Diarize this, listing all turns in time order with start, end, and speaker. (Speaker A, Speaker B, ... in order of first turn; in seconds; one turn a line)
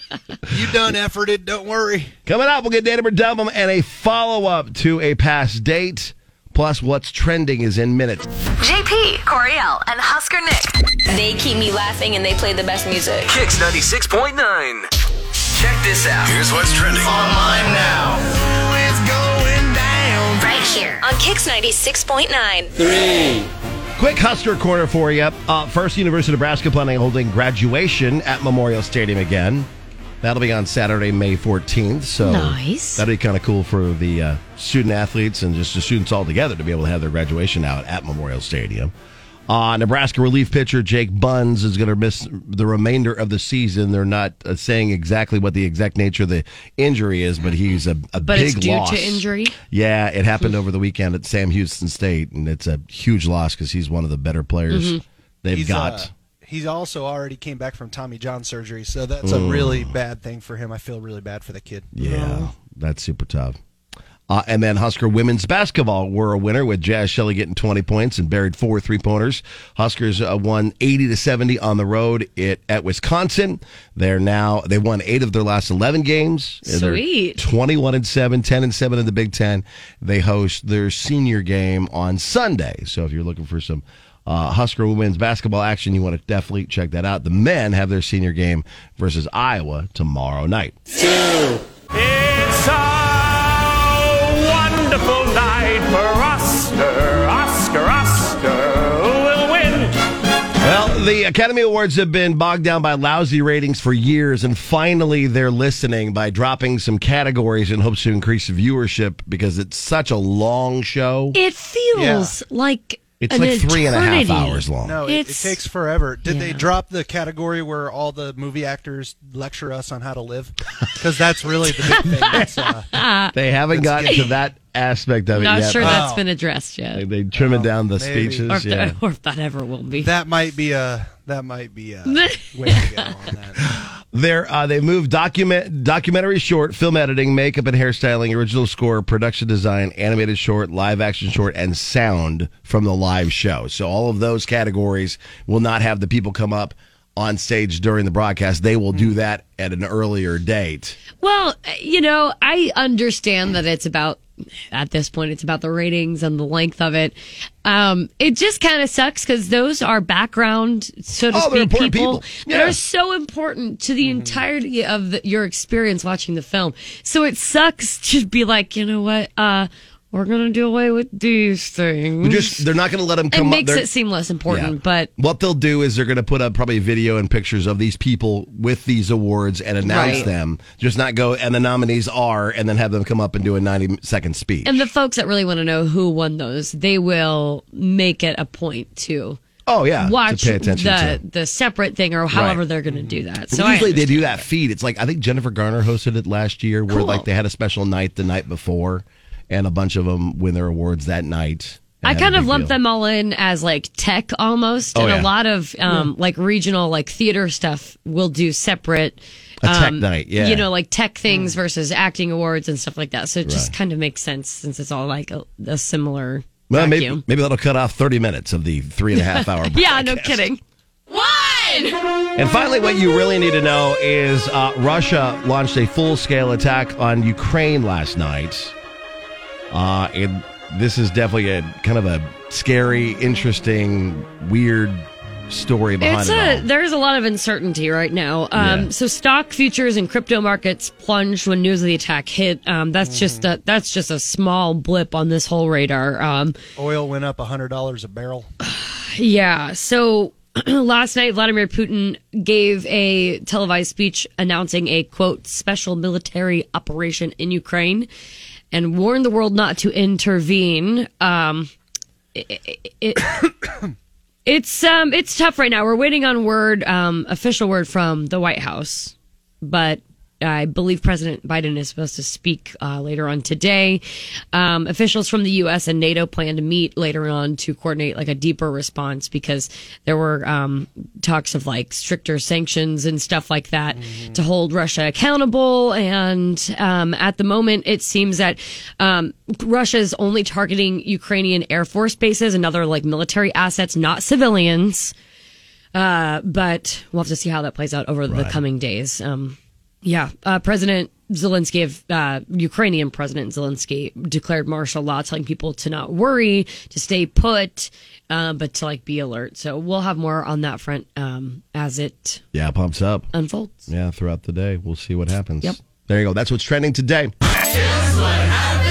Speaker A: 0.5-2.1
Speaker B: 2.3-8.3
Speaker C: 8.6-13.3
Speaker D: 13.3-14.9
Speaker D: 15.6-17.1
Speaker B: 17.1-20.4
Speaker C: 20.4-22.8
Speaker B: 24.0-29.7
Speaker B: 30.2-38.9
Speaker E: 32.2-33.0
Speaker B: 39.5-56.1
Speaker E: 48.2-49.6
Speaker E: 54.7-55.0
Speaker A: 55.5-61.9
Speaker B: 59.2-60.0
Speaker B: 61.9-63.6
Speaker E: 62.0-62.5
Speaker B: 64.3-90.8
Speaker E: 76.7-77.4
Speaker F: 92.0-99.9
Speaker B: 100.6-111.4
Speaker E: 111.3-115.6
Speaker A: 111.9-112.3
Speaker B: 113.2-115.0
Speaker A: 114.8-122.9
Speaker E: 116.3-116.7
Speaker E: 121.9-123.3
Speaker B: 123.3-126.1
Speaker A: 123.7-124.3
Speaker E: 125.3-127.0
Speaker A: 125.8-126.2
Speaker B: 126.9-129.0
Speaker A: 127.3-128.5
Speaker E: 128.5-130.1
Speaker A: 130.0-133.7
Speaker E: 132.1-133.1
Speaker B: 133.8-151.0
Speaker E: 151.2-154.2
Speaker E: 154.7-172.7
Speaker B: 161.3-162.8
Speaker A: 164.0-164.4
Speaker B: 172.2-173.9
Speaker E: 173.3-175.1
Speaker B: 174.5-184.9
Speaker E: 179.8-180.3
Speaker A: 179.9-180.3
Speaker E: 184.7-189.4
Speaker B: 189.7-191.2
Speaker E: 190.0-194.4
Speaker B: 192.3-192.6
Speaker A: 192.9-193.2
Speaker B: 193.5-202.8
Speaker E: 196.9-197.3
Speaker E: 202.0-217.2
Speaker B: 204.9-205.3
Speaker B: 209.6-210.7
Speaker A: 211.3-211.6
Speaker B: 213.5-213.7
Speaker B: 216.7-220.5
Speaker E: 219.2-220.6
Speaker C: 221.1-221.9
Speaker B: 222.4-228.8
Speaker B: 229.7-236.7
Speaker E: 236.0-246.6
Speaker B: 238.6-238.9
Speaker A: 243.0-243.5
Speaker A: 246.8-248.5
Speaker E: 248.6-258.1
Speaker E: 258.7-261.7
Speaker E: 262.4-263.4
Speaker E: 264.5-274.0
Speaker E: 274.5-295.1
Speaker A: 283.9-284.4
Speaker E: 295.9-312.4
Speaker B: 298.3-298.6
Speaker B: 312.5-313.3
Speaker E: 313.3-313.9
Speaker B: 313.9-317.3